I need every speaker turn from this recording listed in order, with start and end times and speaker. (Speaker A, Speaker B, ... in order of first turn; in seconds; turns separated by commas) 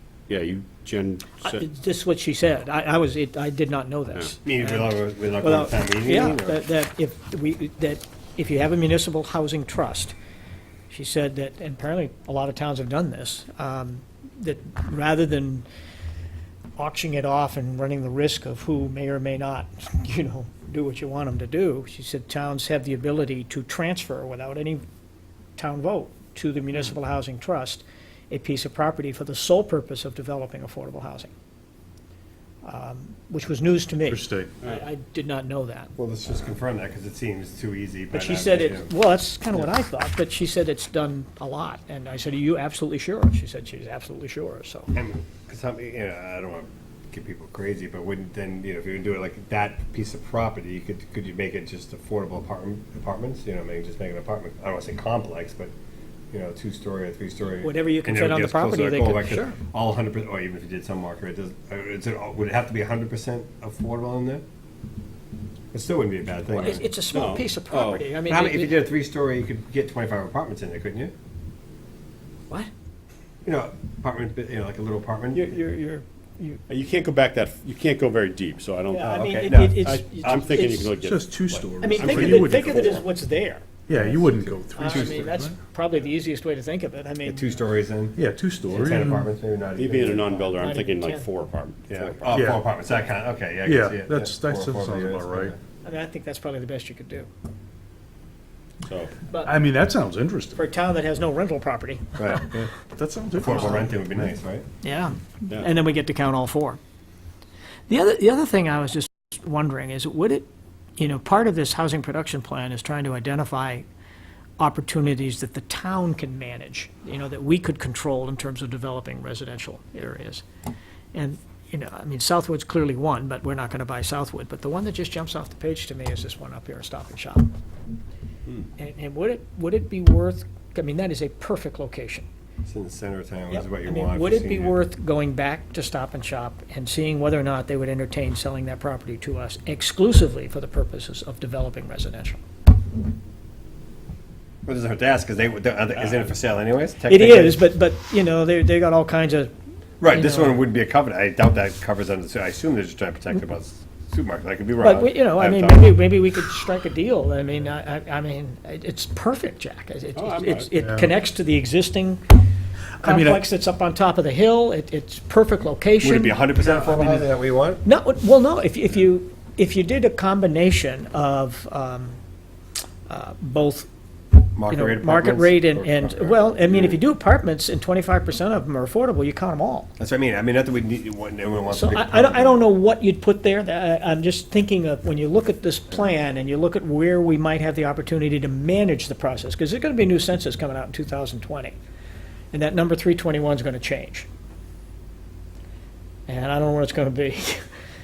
Speaker A: 0.3-1.6, Speaker B: 1.4-10.1, Speaker C: 4.4-6.6, Speaker B: 10.9-15.7, Speaker B: 16.8-24.8, Speaker B: 25.6-31.3, Speaker B: 32.6-35.9, Speaker D: 34.1-34.5, Speaker C: 36.0-38.9, Speaker B: 38.1-44.9, Speaker C: 44.9-55.7, Speaker C: 56.3-64.4, Speaker B: 57.6-59.6, Speaker C: 65.7-66.8, Speaker B: 66.5-68.8, Speaker A: 67.1-68.1, Speaker C: 68.3-71.1, Speaker C: 73.4-75.5, Speaker B: 75.3-76.6, Speaker A: 76.7-83.0, Speaker B: 78.9-81.0, Speaker C: 79.1-79.9, Speaker D: 81.0-83.0, Speaker B: 81.8-83.6, Speaker D: 83.9-85.5, Speaker C: 83.9-85.5, Speaker B: 84.8-87.5, Speaker C: 87.2-90.8, Speaker D: 88.2-89.3, Speaker A: 89.7-92.3, Speaker B: 90.6-91.3, Speaker C: 91.9-95.6, Speaker D: 92.3-92.6, Speaker D: 93.6-95.5, Speaker B: 95.8-97.3, Speaker A: 98.8-99.1, Speaker B: 99.3-99.5, Speaker D: 99.4-100.6, Speaker B: 100.5-102.4, Speaker C: 102.2-102.7, Speaker D: 102.9-104.3, Speaker C: 103.4-104.7, Speaker B: 104.8-106.8, Speaker B: 107.9-113.8, Speaker B: 114.6-120.4, Speaker B: 121.1-127.5, Speaker B: 128.8-132.3, Speaker C: 132.6-134.8, Speaker B: 133.5-142.4, Speaker C: 144.6-147.6, Speaker A: 146.0-146.2, Speaker B: 147.1-149.5, Speaker C: 150.0-156.0, Speaker B: 150.1-150.6, Speaker B: 154.8-162.2, Speaker A: 160.1-160.7, Speaker D: 160.8-161.1, Speaker D: 163.0-163.4, Speaker B: 163.0-167.2, Speaker C: 166.0-167.8, Speaker B: 167.8-172.2, Speaker B: 173.1-173.9, Speaker C: 174.5-177.0, Speaker B: 174.7-179.9, Speaker C: 180.0-182.6, Speaker B: 181.7-191.8, Speaker B: 192.5-194.3, Speaker B: 196.3-197.6